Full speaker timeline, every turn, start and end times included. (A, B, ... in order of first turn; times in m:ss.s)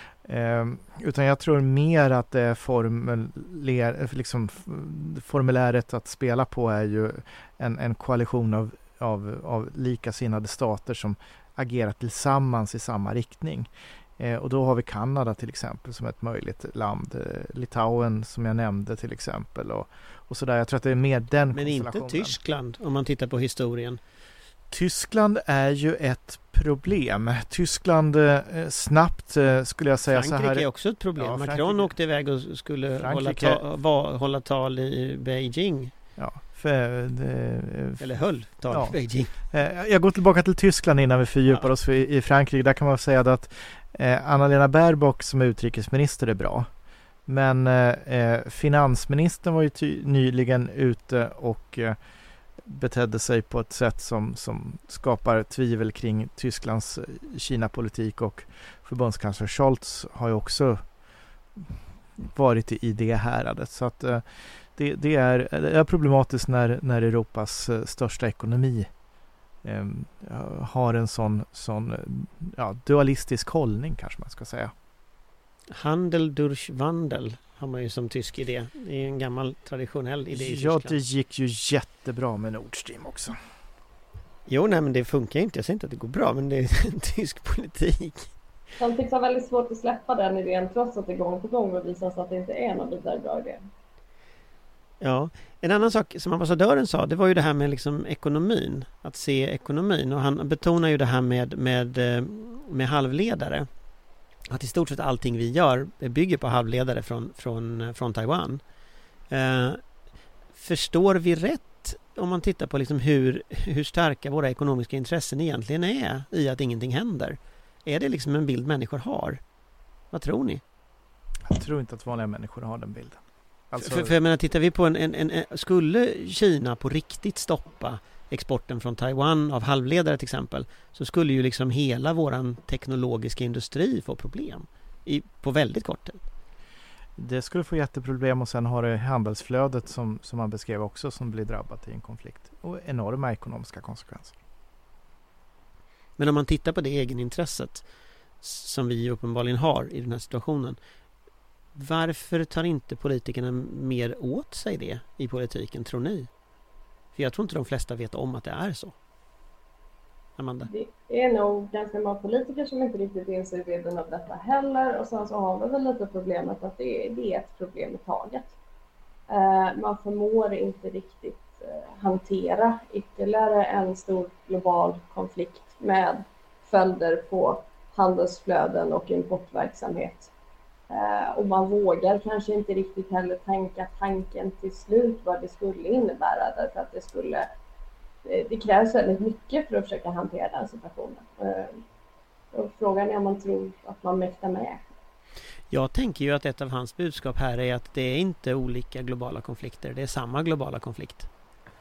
0:00.2-0:22.4 A
0:21.5-0:24.0 B
0:24.7-0:31.9 A
0:30.1-0:35.9 B
0:33.0-0:33.6 A
0:36.2-0:38.0 A
0:38.0-0:39.3 B
0:38.7-0:46.7 A
0:47.3-0:52.0 A
0:52.6-1:00.8 A
1:02.2-1:04.2 A
1:04.8-1:08.9 A
1:09.6-1:14.7 A
1:15.7-1:21.0 B
1:20.3-1:23.4 A
1:24.5-1:28.3 B
1:28.8-1:33.6 C
1:35.0-1:43.7 B
1:44.5-1:48.6 B
1:49.3-1:49.9 B
1:50.5-1:59.4 B
2:00.1-2:00.6 B
2:01.5-2:04.2 A
2:03.8-2:16.2 B
2:17.2-2:24.3 A
2:26.2-2:27.9 B
2:28.4-2:30.8 B
2:31.8-2:36.3 B
2:37.1-2:39.0 B
2:40.4-2:40.7 B
2:40.6-2:48.6 C
2:49.3-3:00.3 C
3:00.9-3:07.5 C
3:08.2-3:11.8 C
3:12.5-3:14.9 C
3:15.7-3:21.3 B